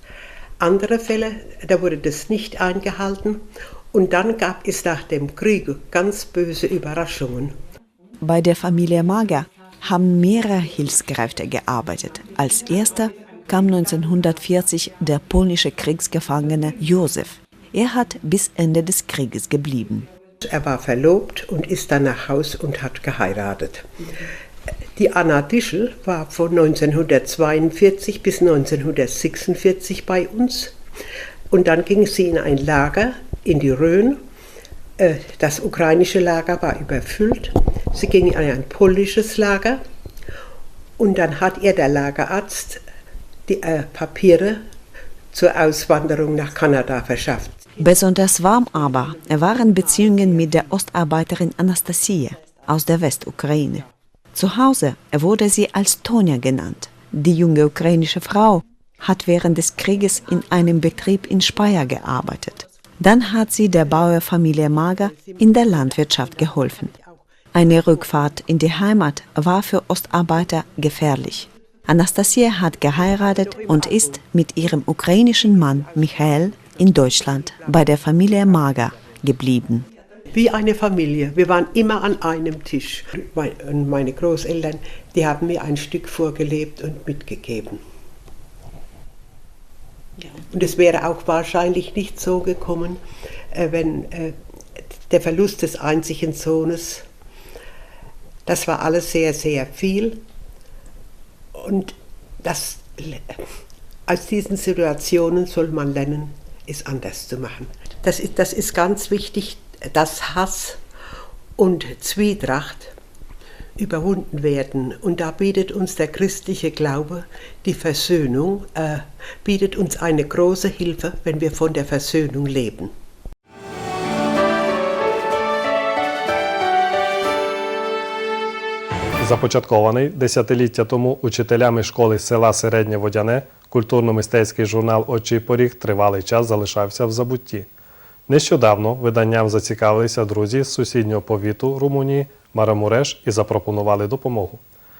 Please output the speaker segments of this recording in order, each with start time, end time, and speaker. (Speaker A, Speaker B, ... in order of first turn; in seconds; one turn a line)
Speaker A: 0.6-7.6
Speaker B: 8.2-20.1
Speaker A: 20.4-23.9
Speaker A: 24.9-30.8
Speaker A: 31.5-34.2
Speaker A: 35.0-39.8
Speaker A: 41.0-42.8
Speaker A: 43.5-44.6
Speaker A: 45.3-47.7
Speaker B: 47.8-67.0
Speaker B: 67.5-79.8
Speaker A: 80.3-87.8
Speaker A: 90.5-93.0
Speaker A: 93.5-94.4
Speaker A: 94.9-97.0
Speaker A: 98.5-100.2
Speaker A: 101.5-103.4
Speaker A: 104.1-110.8
Speaker A: 111.6-112.9
Speaker A: 113.8-122.9
Speaker C: 129.2-137.7
Speaker C: 138.3-144.6